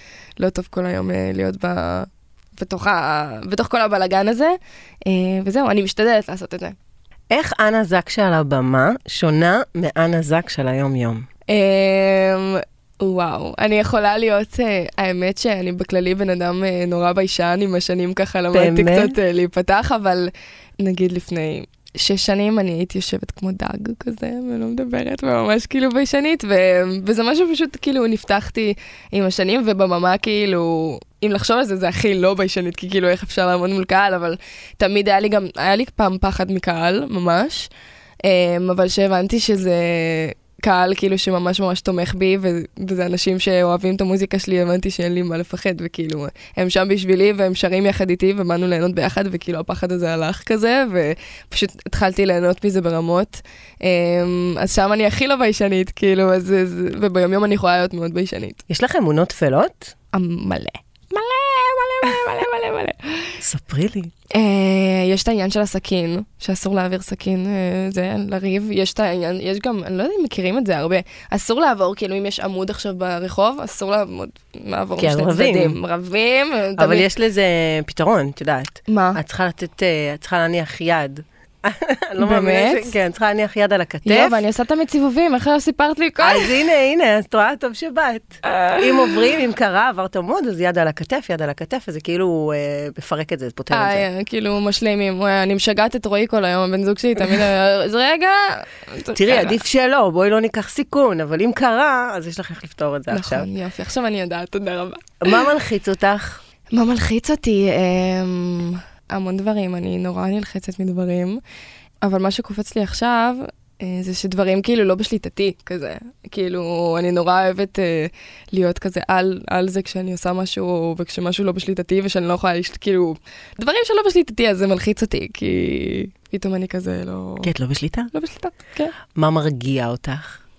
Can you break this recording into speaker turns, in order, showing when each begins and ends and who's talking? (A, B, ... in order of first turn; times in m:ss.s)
0:00.4-0:04.5 A
0:05.0-0:06.7 A
0:07.3-0:11.2 B
0:11.5-0:20.3 A
0:18.5-0:19.2 B
0:20.8-0:37.7 A
0:38.2-0:58.6 A
0:58.7-0:59.9 B
1:00.1-1:03.4 A
1:03.4-1:04.1 B
1:04.3-1:17.1 A
1:15.0-1:15.8 B
1:16.8-1:24.4 B
1:18.9-1:19.2 A
1:22.2-1:22.9 A
1:24.0-1:26.7 A
1:26.2-1:34.0 B
1:28.4-1:29.2 A
1:33.7-1:39.6 A
1:39.1-1:43.5 B
1:43.1-1:45.5 A
1:45.2-1:46.4 B
1:46.7-1:51.4 A
1:52.0-2:07.5 A
2:07.4-2:08.1 B
2:08.1-2:08.9 A
2:09.1-2:10.4 B